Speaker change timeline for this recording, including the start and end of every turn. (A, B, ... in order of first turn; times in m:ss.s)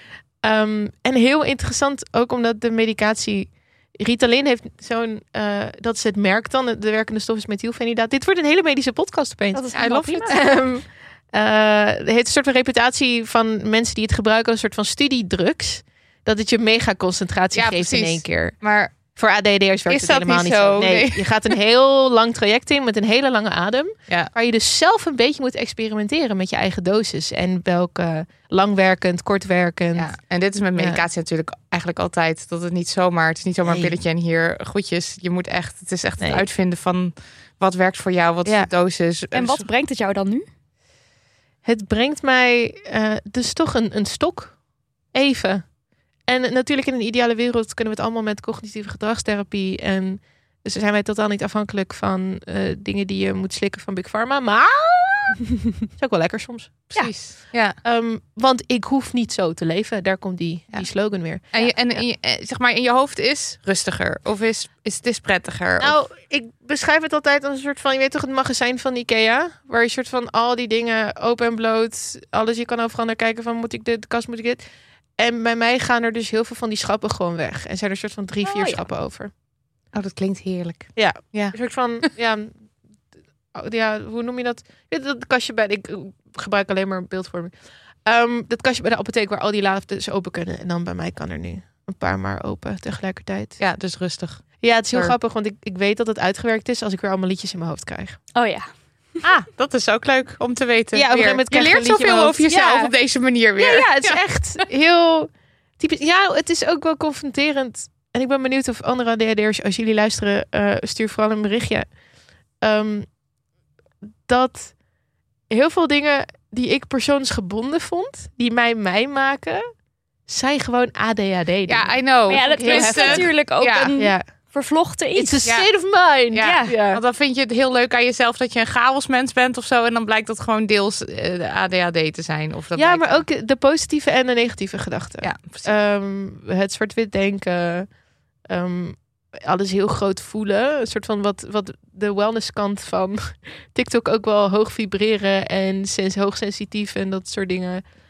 0:00.4-0:18.6 A
0:09.5-0:10.5 B
0:09.7-0:10.5 C
0:17.5-0:19.0 C
0:19.1-0:30.2 A
0:19.9-0:21.3 C
0:30.0-0:39.6 C
0:30.8-0:31.0 A
0:33.6-0:34.0 A
0:36.2-0:36.4 A
0:38.4-0:38.7 A
0:39.3-0:40.5 B
0:41.6-0:44.6 A
0:45.1-0:45.7 A
0:46.3-1:01.8 A
0:57.0-0:57.8 C
1:01.5-1:06.0 C
1:05.8-1:14.6 A
1:15.2-1:19.3 A
1:18.4-1:18.8 B
1:19.9-1:21.6 C
1:21.0-1:22.6 A
1:23.5-1:27.5 A
1:28.1-1:33.6 A
1:33.6-1:35.2 C
1:34.6-1:38.2 A
1:38.4-1:38.7 B
1:39.2-1:44.2 C
1:40.9-1:42.9 A
1:43.6-1:51.9 A
1:52.6-1:53.1 A
1:54.3-1:54.8 A
1:55.5-1:59.6 A
2:00.3-2:03.3 A
2:01.7-2:03.9 C
2:02.3-2:05.5 B
2:04.0-2:04.2 A
2:05.2-2:07.0 A
2:05.4-2:05.7 C
2:06.3-2:13.2 C
2:06.4-2:06.7 B
2:12.8-2:17.9 A
2:15.2-2:15.7 C
2:18.5-2:27.8 A